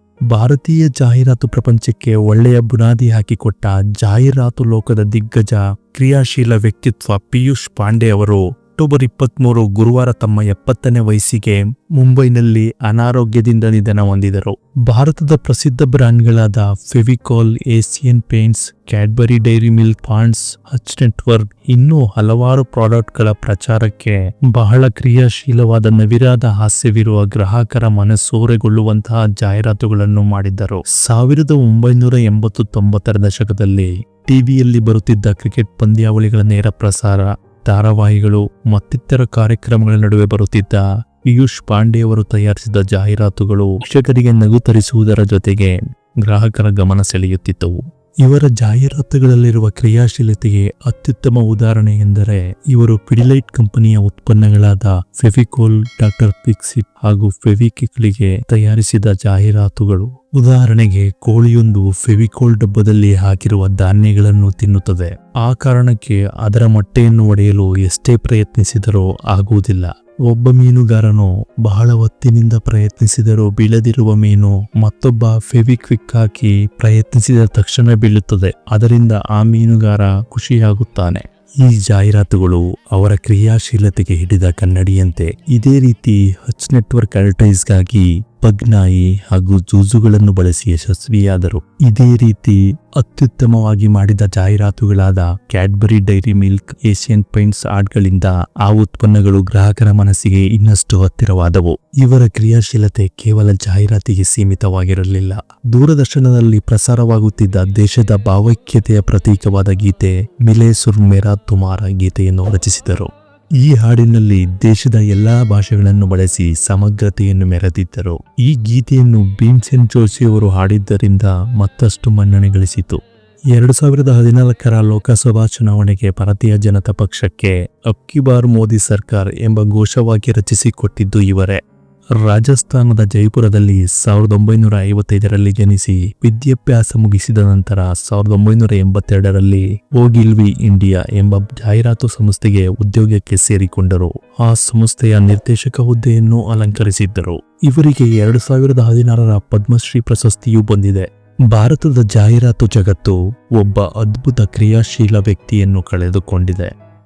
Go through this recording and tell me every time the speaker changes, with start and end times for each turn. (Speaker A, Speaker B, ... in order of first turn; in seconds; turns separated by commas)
Speaker A: 0.3-113.1, Speaker A: 113.6-123.0, Speaker A: 123.5-131.6, Speaker A: 132.2-156.7